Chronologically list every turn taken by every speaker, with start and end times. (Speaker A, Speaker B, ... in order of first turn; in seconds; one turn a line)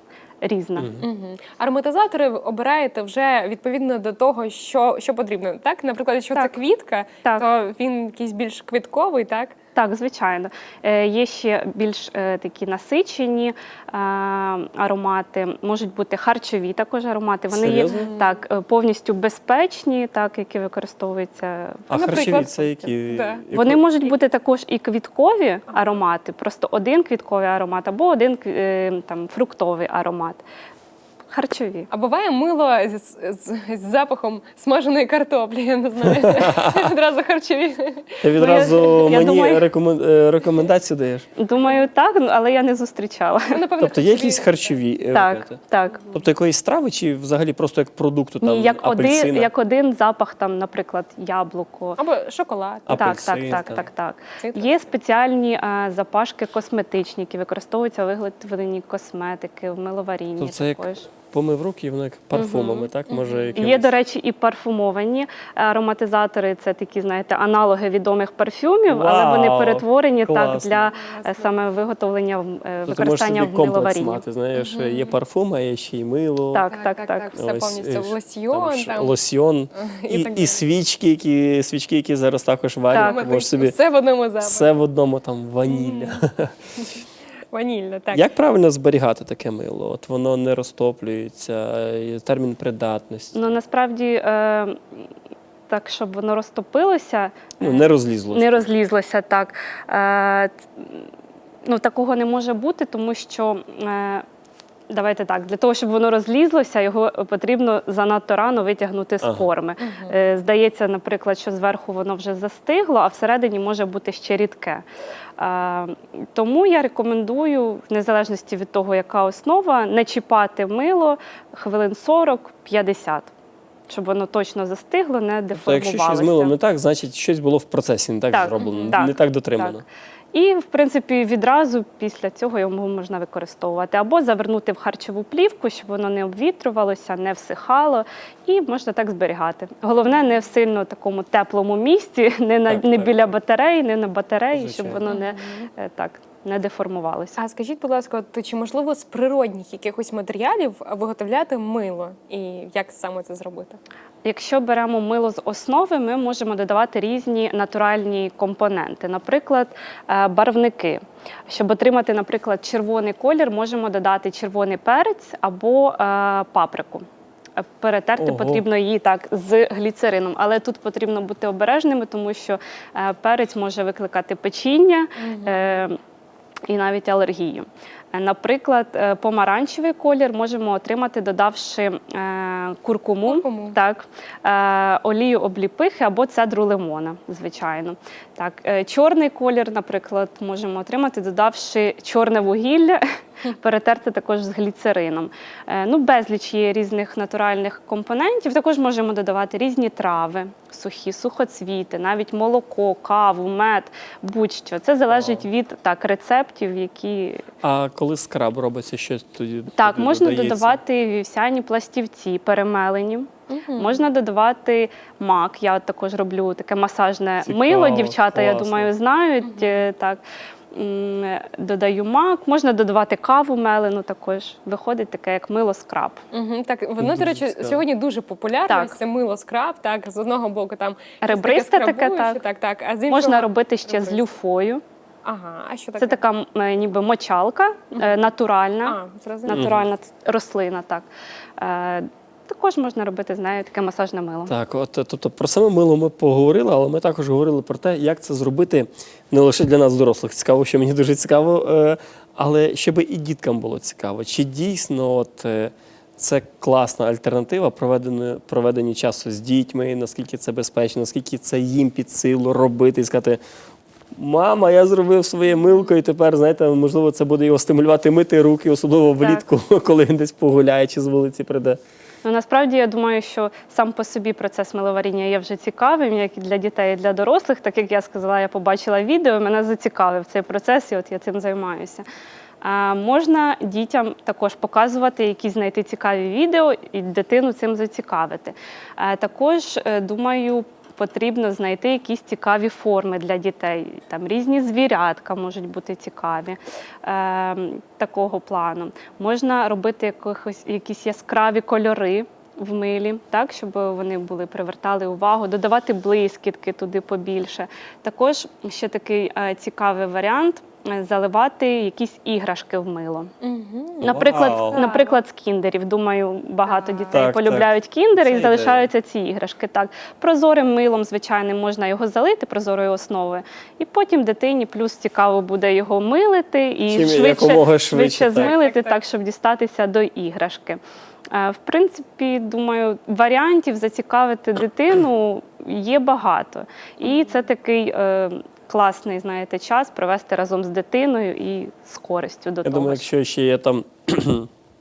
Speaker A: 0.4-0.9
Speaker B: 0.8-1.0
Speaker C: 1.0-9.5
Speaker A: 9.7-22.4
Speaker B: 17.5-18.1
Speaker B: 21.9-23.8
Speaker C: 21.9-23.4
Speaker A: 23.5-30.4
Speaker A: 31.3-31.9
Speaker C: 31.9-38.8
Speaker B: 36.1-36.9
Speaker B: 38.2-41.3
Speaker A: 38.3-39.6
Speaker A: 41.4-43.6
Speaker C: 43.5-44.7
Speaker B: 43.8-49.5
Speaker A: 45.1-46.1
Speaker A: 48.4-52.0
Speaker C: 52.0-53.7
Speaker B: 52.9-53.8
Speaker A: 52.9-61.1
Speaker C: 54.4-54.9
Speaker B: 60.4-63.9
Speaker A: 62.3-62.9
Speaker C: 63.1-63.6
Speaker A: 63.6-74.2
Speaker B: 68.9-70.9
Speaker C: 71.1-71.4
Speaker B: 72.9-76.7
Speaker C: 74.6-75.1
Speaker A: 76.5-77.3
Speaker C: 76.7-79.2
Speaker B: 77.3-83.8
Speaker C: 79.8-80.6
Speaker A: 82.9-83.2
Speaker C: 82.9-84.7
Speaker B: 84.4-86.5
Speaker C: 85.7-86.2
Speaker C: 87.5-88.3
Speaker B: 88.1-93.4
Speaker A: 93.3-95.0
Speaker A: 95.7-101.0
Speaker B: 97.6-98.6
Speaker A: 101.6-104.2
Speaker A: 104.9-114.8
Speaker C: 109.8-110.1
Speaker A: 115.4-123.3
Speaker A: 123.9-126.5
Speaker B: 125.5-129.8
Speaker A: 128.3-129.8
Speaker C: 128.6-129.0
Speaker A: 130.3-147.4
Speaker B: 142.7-143.3
Speaker B: 144.5-145.0
Speaker C: 145.1-145.7
Speaker C: 147.4-153.8
Speaker A: 154.2-167.1
Speaker A: 167.6-176.0
Speaker B: 168.2-168.6
Speaker C: 175.2-175.8
Speaker A: 176.7-207.4
Speaker C: 183.2-183.8
Speaker B: 205.1-205.4
Speaker B: 207.6-210.8
Speaker A: 209.7-220.2
Speaker C: 213.5-214.1
Speaker B: 217.4-218.9
Speaker C: 219.4-219.7
Speaker A: 220.7-226.2
Speaker C: 226.3-234.2
Speaker B: 227.0-227.8
Speaker A: 228.7-229.0
Speaker A: 231.2-232.4
Speaker A: 233.1-234.8
Speaker C: 235.2-236.2
Speaker A: 236.0-241.1
Speaker C: 238.8-239.7
Speaker B: 239.5-239.8
Speaker A: 241.6-244.5
Speaker B: 244.5-263.4
Speaker B: 264.1-271.8
Speaker A: 272.2-282.0
Speaker A: 282.6-313.3
Speaker C: 313.4-315.2
Speaker B: 314.0-314.8
Speaker A: 314.0-330.8
Speaker C: 316.6-317.2
Speaker B: 317.1-318.9
Speaker B: 326.9-328.5
Speaker C: 328.3-329.0
Speaker A: 331.3-343.1
Speaker B: 342.6-344.5